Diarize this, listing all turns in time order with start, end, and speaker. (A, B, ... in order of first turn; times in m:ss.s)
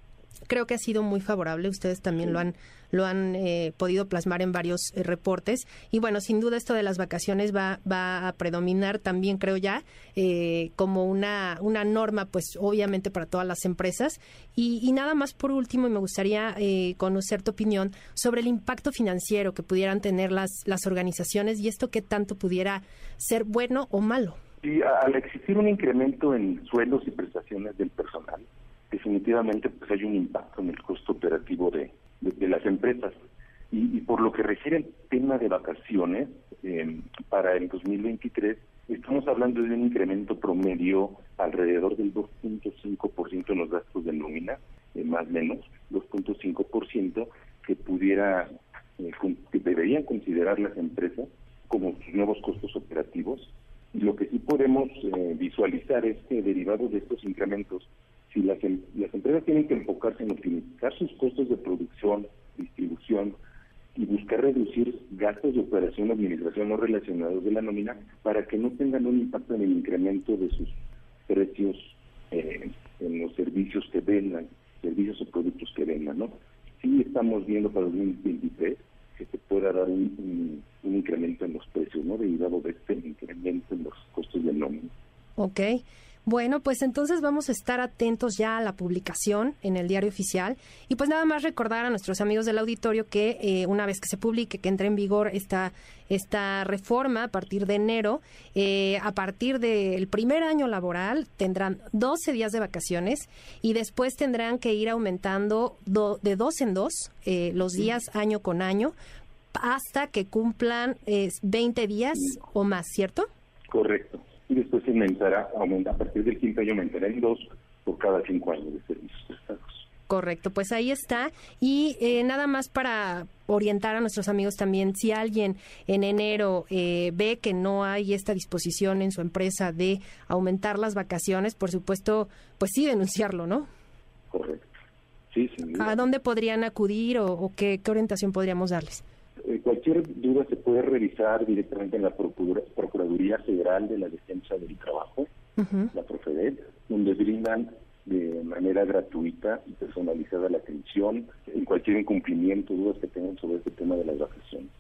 0:00.5-0:24.4 A
0:24.6-0:33.1 B
0:33.7-1:03.4 B
1:04.0-1:10.7 B
1:11.3-1:24.9 B
1:25.4-1:48.9 A
1:49.6-1:53.3 A
1:53.7-1:59.8 B
2:00.1-2:13.7 A
2:14.3-2:14.7 B
2:15.3-2:16.0 B
2:15.7-2:19.0 A
2:19.4-2:25.3 B
2:25.6-2:25.9 A
2:25.9-2:34.7 B